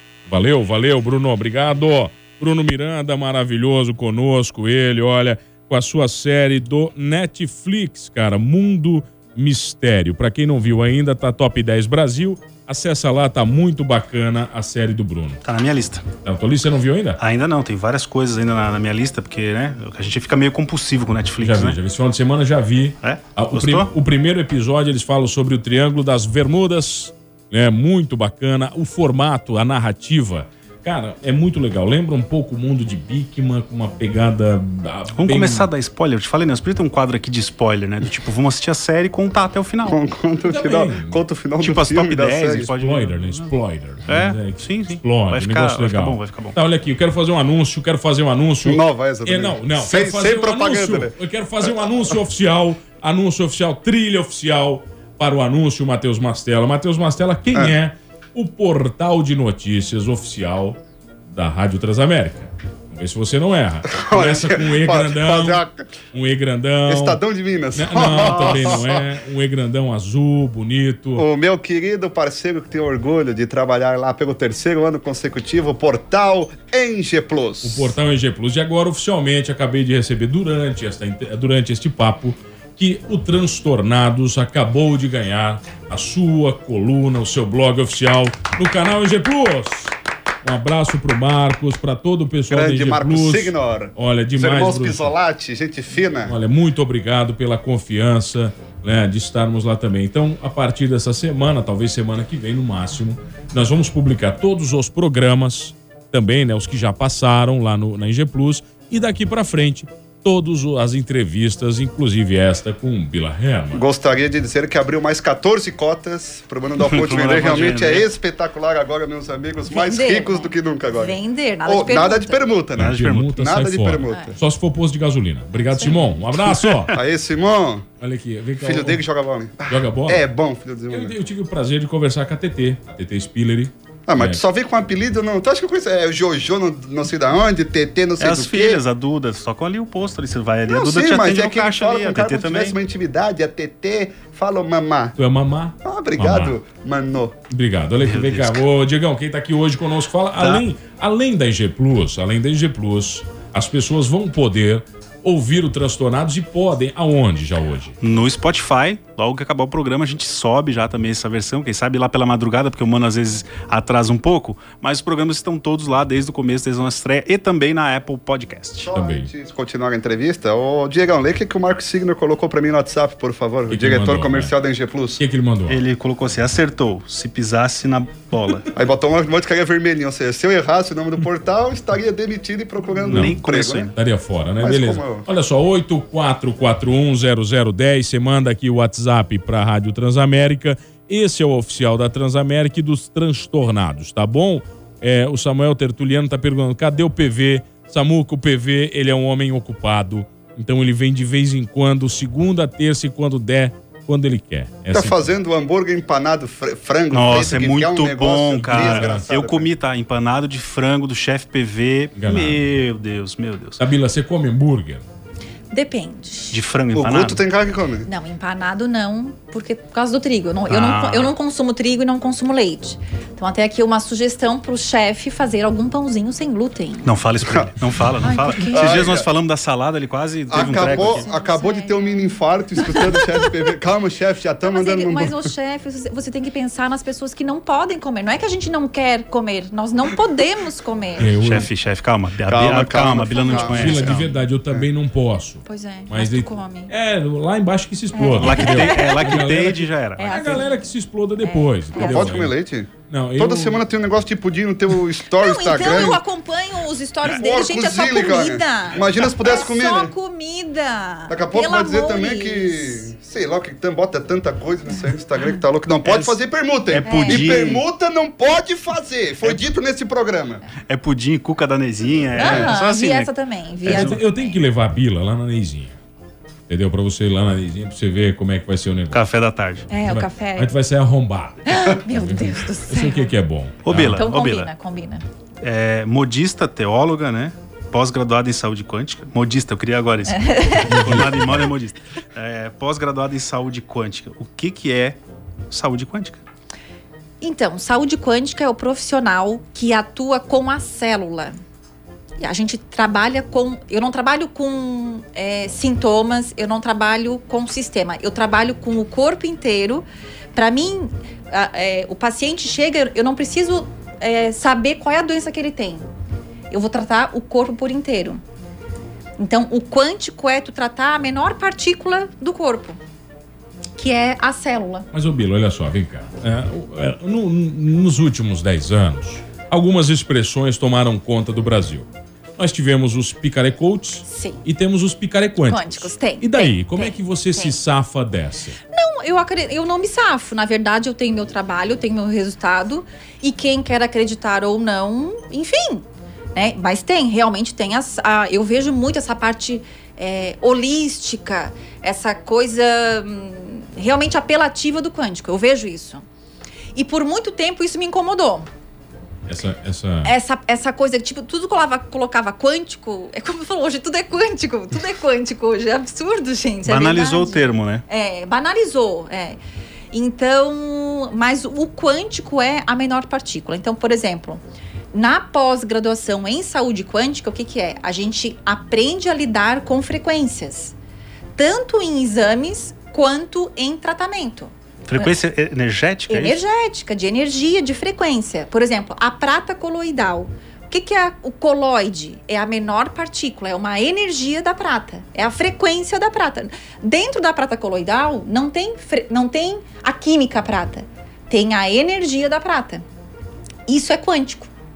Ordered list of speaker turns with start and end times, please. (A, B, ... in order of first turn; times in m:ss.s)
0:00.3-0:15.4 A
0:15.4-0:16.1 B
0:16.2-0:17.2 A
0:17.2-0:21.8 B
0:21.4-0:35.7 A
0:23.0-0:23.9 B
0:35.2-0:40.0 B
0:39.8-0:42.7 C
0:40.4-0:41.2 A
0:41.6-0:43.5 B
0:42.5-1:00.8 A
0:44.1-0:46.6 B
0:48.6-0:52.0 C
1:01.3-1:07.2 A
1:03.9-1:05.9 C
1:06.9-1:09.1 C
1:07.7-1:11.2 A
1:11.2-1:17.9 C
1:17.6-1:29.9 A
1:30.4-1:35.1 A
1:32.5-1:36.4 C
1:36.2-1:53.8 A
1:53.7-2:04.4 C
1:56.8-1:58.1 B
1:59.7-2:02.4 D
2:02.8-2:07.0 A
2:02.8-2:03.3 B
2:04.1-2:04.4 D
2:06.4-2:06.9 B
2:06.9-2:07.8 C
2:08.0-2:09.0 A
2:08.6-2:11.1 C
2:09.7-2:10.3 A
2:10.9-2:14.4 A
2:14.1-2:18.8 C
2:18.2-2:22.8 B
2:20.6-2:25.2 C
2:25.2-2:26.5 A
2:25.8-2:27.4 C
2:27.5-2:38.0 A
2:28.0-2:28.6 B
2:30.4-2:30.6 B
2:38.0-2:48.9 B
2:48.8-2:55.2 C
2:48.9-2:49.3 A
2:53.7-2:54.5 A
2:55.2-2:55.8 A
2:55.7-2:58.7 B
2:58.7-3:03.9 C
3:03.0-3:03.9 B
3:03.1-3:25.3 A
3:04.6-3:05.2 C
3:24.9-3:29.7 C
3:27.1-3:33.8 B
3:28.6-3:29.2 A
3:32.2-3:32.6 A
3:33.8-3:35.0 A
3:35.7-3:36.6 D
3:36.5-3:37.4 B
3:36.9-3:38.1 C
3:38.0-3:47.1 D
3:40.7-3:41.3 B
3:47.0-3:51.2 B
3:48.2-3:48.9 D
3:48.7-3:49.3 C
3:50.5-3:55.4 C
3:50.5-3:53.3 D
3:54.6-4:01.3 D
4:01.2-4:01.7 A
4:01.4-4:04.3 B
4:02.4-4:04.9 C
4:03.4-4:03.8 D
4:03.6-4:12.5 A
4:05.6-4:06.9 D
4:08.1-4:09.4 D
4:08.4-4:10.6 B
4:10.2-4:10.9 D
4:11.4-4:12.3 D
4:11.9-4:16.2 C
4:13.1-4:13.8 A
4:15.4-4:23.1 D
4:17.2-4:20.1 C
4:21.3-4:30.6 C
4:26.0-4:26.4 B
4:26.9-4:27.8 B
4:27.0-4:27.6 D
4:30.8-4:33.3 B
4:32.4-4:34.6 D
4:32.4-4:32.7 C
4:33.8-4:34.2 B
4:33.9-4:36.0 A
4:36.7-4:39.2 A
4:39.1-4:39.9 B
4:39.9-4:40.7 D
4:40.0-4:44.2 A
4:41.6-4:43.3 D
4:43.8-4:44.7 B
4:44.1-4:45.2 D
4:45.6-4:56.4 B
4:50.3-4:51.0 D
4:50.9-4:51.7 A
4:57.4-5:01.6 D
5:02.4-5:16.0 D
5:16.7-5:18.4 D
5:19.4-5:23.0 D
5:24.0-5:25.0 D
5:25.1-5:38.8 A
5:34.2-5:34.6 D
5:35.6-5:37.8 D
5:38.9-5:56.2 D
5:56.9-5:58.7 D
5:59.5-6:00.3 A
6:00.2-6:09.6 D
6:06.8-6:08.0 B
6:10.1-6:14.6 D
6:15.1-6:20.9 D
6:21.6-6:25.3 D
6:25.1-6:26.6 B
6:26.3-6:43.0 D
6:43.9-6:44.7 D